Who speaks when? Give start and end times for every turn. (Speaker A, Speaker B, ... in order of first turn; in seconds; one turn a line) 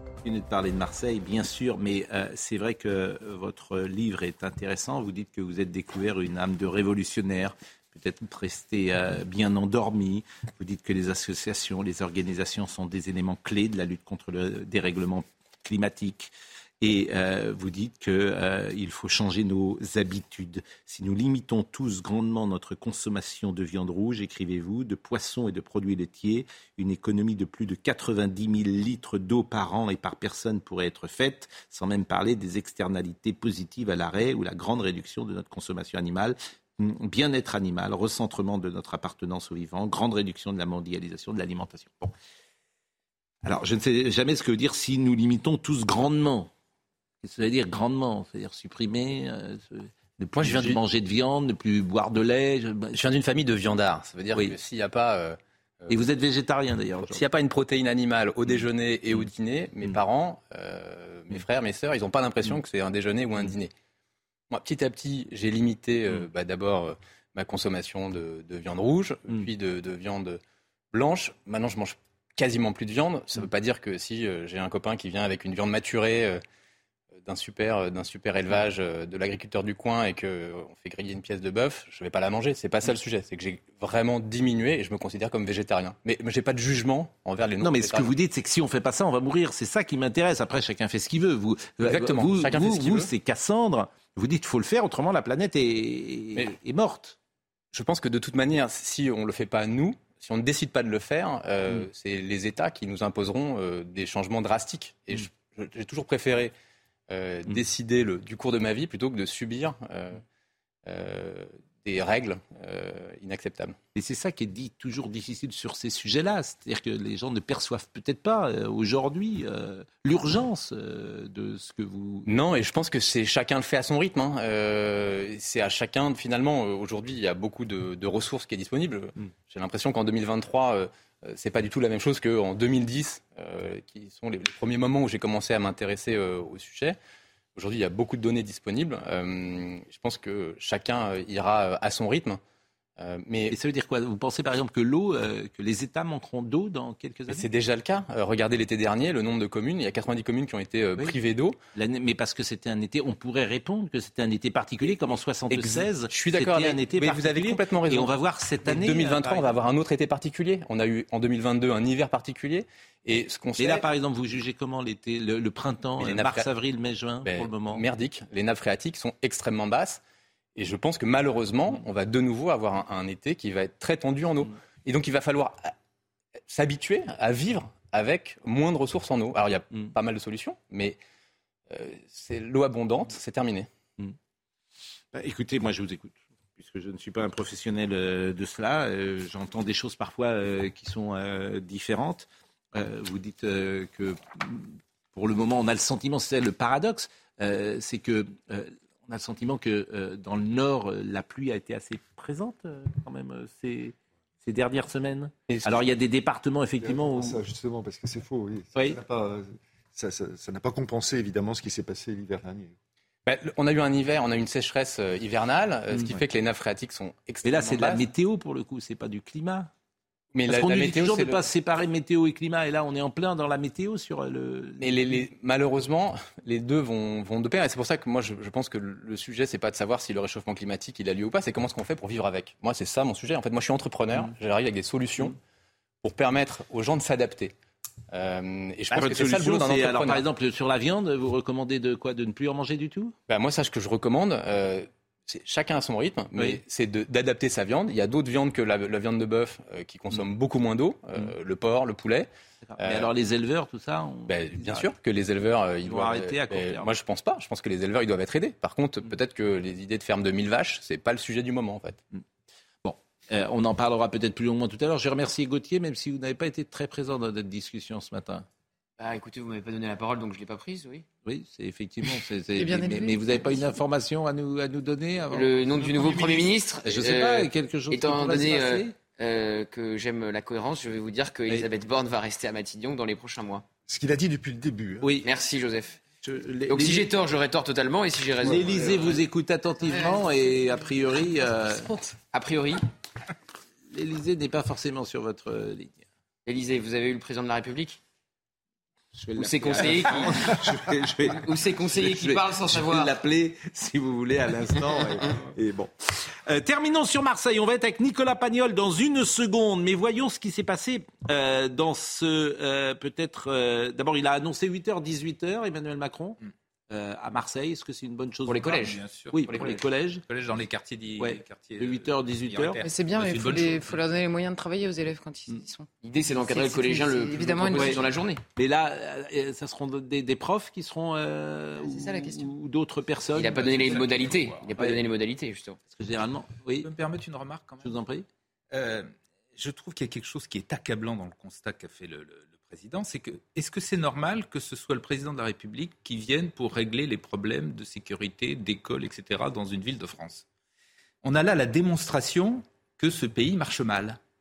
Speaker A: 0.2-42.1
Speaker A: 43.4-46.5
Speaker A: 47.2-53.0
Speaker B: 50.4-50.8
Speaker B: 52.9-56.0
Speaker A: 55.9-57.2
Speaker B: 57.1-63.7
Speaker A: 58.5-59.3
Speaker B: 64.5-70.4
Speaker B: 70.9-76.4
Speaker B: 77.2-88.1
Speaker A: 87.6-97.2
Speaker B: 91.8-93.1
Speaker B: 97.7-106.5
Speaker B: 107.1-110.2
Speaker B: 110.8-113.8
Speaker A: 113.9-122.3
Speaker B: 122.3-137.0
Speaker B: 137.6-142.4
Speaker B: 143.0-143.6
Speaker A: 143.5-147.5
Speaker B: 147.3-151.6
Speaker A: 151.7-159.6
Speaker B: 155.5-158.1
Speaker B: 158.6-163.8
Speaker A: 163.6-167.8
Speaker B: 166.0-166.4
Speaker B: 167.2-170.0
Speaker B: 170.6-175.7
Speaker B: 176.5-181.0
Speaker B: 181.7-183.7
Speaker A: 185.1-207.4
Speaker B: 205.5-205.8
Speaker C: 206.8-212.7
Speaker A: 208.7-209.0
Speaker B: 213.2-218.1
Speaker A: 217.4-219.7
Speaker B: 220.3-221.4
Speaker A: 220.5-225.2
Speaker B: 224.8-235.3
Speaker B: 236.0-237.5
Speaker B: 238.1-240.2
Speaker A: 238.9-243.1
Speaker B: 243.3-253.1
Speaker A: 246.3-246.6
Speaker A: 252.7-254.9
Speaker B: 254.3-262.0
Speaker A: 255.8-256.9
Speaker A: 262.8-268.4
Speaker D: 269.0-271.0
Speaker A: 271.2-278.9
Speaker E: 272.6-273.3
Speaker D: 275.3-283.6
Speaker C: 283.9-285.1
Speaker A: 285.0-285.3
Speaker D: 285.2-286.0
Speaker A: 286.2-287.1
Speaker D: 286.7-289.2
Speaker C: 288.4-289.1
Speaker A: 288.4-291.9
Speaker E: 289.9-290.4
Speaker D: 292.3-292.8
Speaker A: 293.9-296.0
Speaker D: 296.4-298.0
Speaker A: 299.2-316.4
Speaker D: 299.4-300.6
Speaker D: 301.3-303.1
Speaker A: 316.9-318.8
Speaker D: 318.5-319.8
Speaker F: 318.6-324.0
Speaker A: 319.3-320.2
Speaker A: 321.2-322.8
Speaker E: 322.8-328.1
Speaker D: 326.0-328.4
Speaker A: 327.7-328.0
Speaker A: 328.6-334.1
Speaker E: 331.8-332.5
Speaker D: 333.3-335.8
Speaker F: 333.6-334.7
Speaker A: 335.9-336.9
Speaker F: 336.8-337.9
Speaker A: 337.8-338.2
Speaker F: 338.7-350.4
Speaker F: 351.2-354.2